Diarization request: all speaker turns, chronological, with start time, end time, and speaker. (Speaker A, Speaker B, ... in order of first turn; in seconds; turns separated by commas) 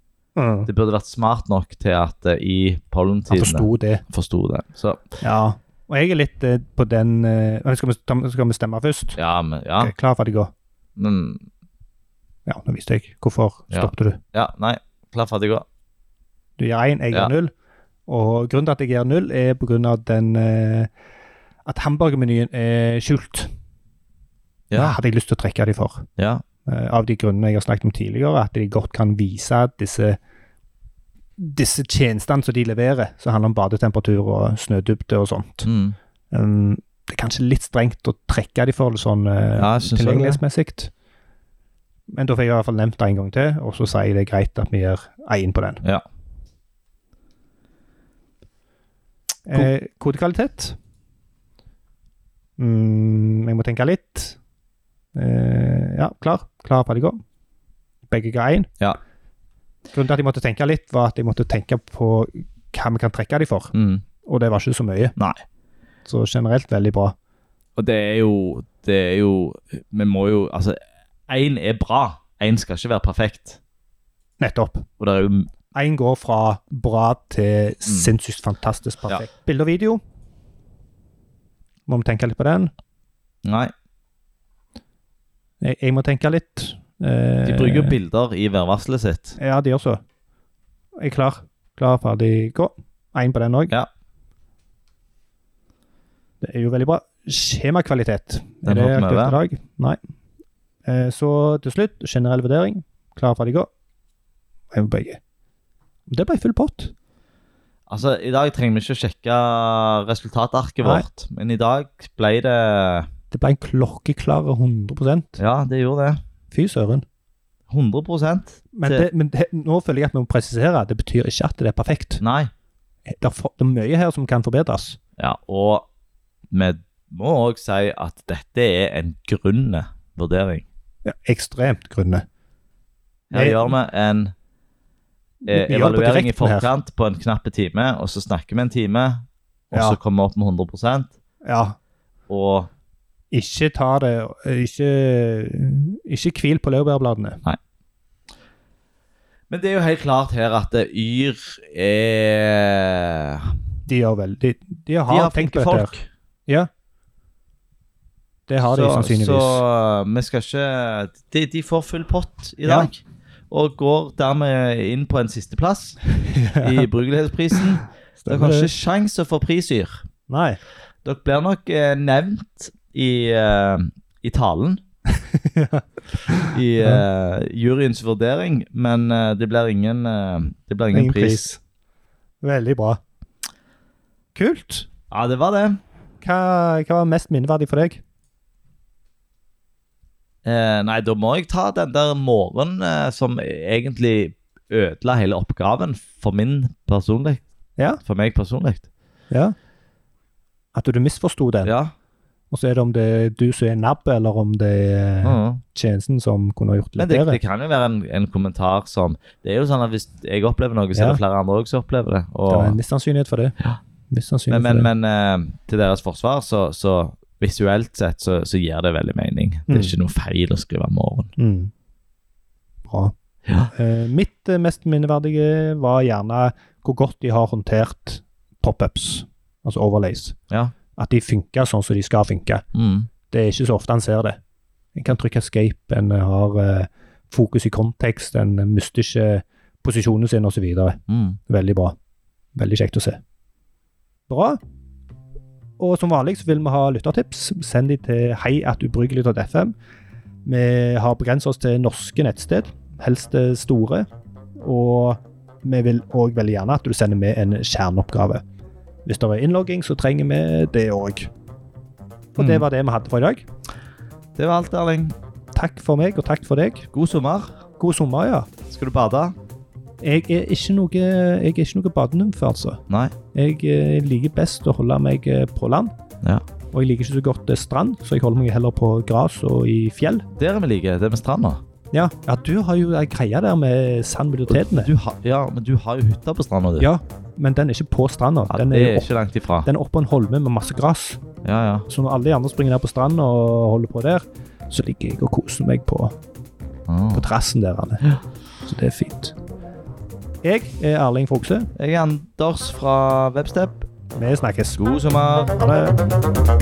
Speaker A: 0.4-0.7, Speaker B: 0.7-5.0, Speaker A: 3.3-4.0, Speaker A: 5.2-9.2, Speaker B: 9.2-9.9, Speaker A: 9.8-10.5, Speaker B: 11.0-11.4, Speaker A: 12.4-14.2, Speaker B: 13.7-15.7, Speaker A: 16.6-17.5, Speaker A: 18.1-20.9, Speaker A: 21.6-23.5, Speaker B: 24.7-25.0, Speaker A: 24.7-26.1, Speaker B: 26.2-26.4, Speaker A: 26.6-30.2, Speaker A: 31.4-35.7, Speaker B: 35.6-36.0, Speaker A: 36.3-40.9, Speaker B: 39.6-40.4, Speaker A: 42.1-45.8, Speaker A: 49.5-50.8, Speaker A: 52.6-54.4, Speaker A: 55.1-57.2, Speaker A: 58.1-58.7, Speaker A: 59.9-65.1, Speaker B: 63.7-64.0, Speaker B: 65.2-65.4, Speaker A: 66.1-67.1, Speaker B: 67.8-73.6, Speaker A: 74.4-74.9, Speaker B: 75.0-75.5, Speaker A: 75.7-80.0, Speaker A: 81.9-82.7, Speaker B: 83.5-83.7, Speaker A: 85.6-88.0, Speaker B: 87.5-89.4, Speaker A: 89.4-90.0, Speaker A: 91.0-93.7, Speaker A: 96.4-100.0, Speaker B: 98.6-99.4, Speaker A: 100.8-103.7, Speaker A: 104.7-105.2, Speaker A: 106.1-106.9, Speaker B: 107.9-113.1, Speaker A: 113.3-115.4, Speaker B: 115.4-116.2, Speaker A: 116.5-117.0, Speaker B: 117.7-119.1, Speaker A: 118.7-122.2, Speaker B: 122.2-122.5, Speaker A: 123.1-125.0, Speaker B: 125.2-125.9, Speaker B: 126.5-130.6, Speaker A: 131.1-132.2, Speaker B: 133.3-134.3, Speaker A: 133.3-133.7, Speaker A: 135.4-136.7, Speaker B: 135.4-141.1, Speaker A: 139.7-140.0, Speaker A: 141.4-141.8, Speaker B: 142.3-142.7, Speaker A: 143.3-147.4, Speaker B: 149.5-153.5, Speaker A: 153.9-155.9, Speaker B: 155.1-156.1, Speaker A: 158.5-159.6, Speaker B: 158.6-166.0, Speaker A: 162.6-162.9, Speaker A: 166.2-166.9, Speaker B: 166.6-170.0, Speaker A: 168.2-168.7, Speaker A: 170.3-170.6, Speaker B: 171.0-174.8, Speaker A: 175.1-177.0, Speaker B: 176.5-181.4, Speaker A: 180.9-181.6, Speaker A: 182.4-183.0, Speaker A: 184.3-184.9, Speaker B: 185.1-185.8, Speaker A: 186.2-188.0, Speaker B: 190.4-197.4, Speaker B: 198.0-198.9, Speaker A: 200.7-201.7, Speaker B: 201.6-201.9, Speaker A: 202.5-207.4, Speaker B: 205.2-205.6, Speaker B: 207.0-212.8, Speaker A: 210.9-211.2, Speaker A: 212.5-213.6, Speaker A: 214.1-214.9, Speaker B: 214.5-221.3, Speaker A: 219.7-219.9, Speaker A: 221.4-221.7, Speaker A: 222.9-223.1, Speaker B: 223.4-223.7, Speaker A: 223.7-230.4, Speaker A: 230.9-232.6, Speaker B: 232.7-233.1, Speaker A: 233.3-234.4, Speaker A: 234.9-241.9, Speaker B: 241.1-241.4, Speaker A: 242.6-243.2, Speaker A: 244.3-244.6, Speaker A: 245.8-249.7, Speaker A: 250.4-254.1, Speaker A: 254.6-258.4, Speaker A: 259.1-261.3, Speaker A: 262.4-263.4, Speaker B: 262.4-262.6, Speaker B: 264.4-265.2, Speaker A: 265.6-266.9, Speaker B: 266.9-267.6, Speaker A: 267.8-268.5, Speaker B: 268.7-269.4, Speaker A: 270.0-272.8, Speaker B: 272.9-273.1, Speaker A: 273.3-275.9, Speaker A: 276.7-280.2, Speaker B: 280.4-281.6, Speaker A: 281.9-284.9, Speaker B: 284.5-286.9, Speaker A: 286.8-289.1, Speaker B: 288.5-289.7, Speaker A: 289.6-291.2, Speaker B: 291.4-291.9, Speaker A: 291.9-296.2, Speaker B: 296.9-297.3, Speaker A: 297.1-298.1, Speaker A: 298.6-299.4, Speaker A: 300.4-301.7, Speaker B: 301.8-303.9, Speaker A: 304.2-304.8, Speaker B: 304.8-305.6, Speaker A: 305.6-306.0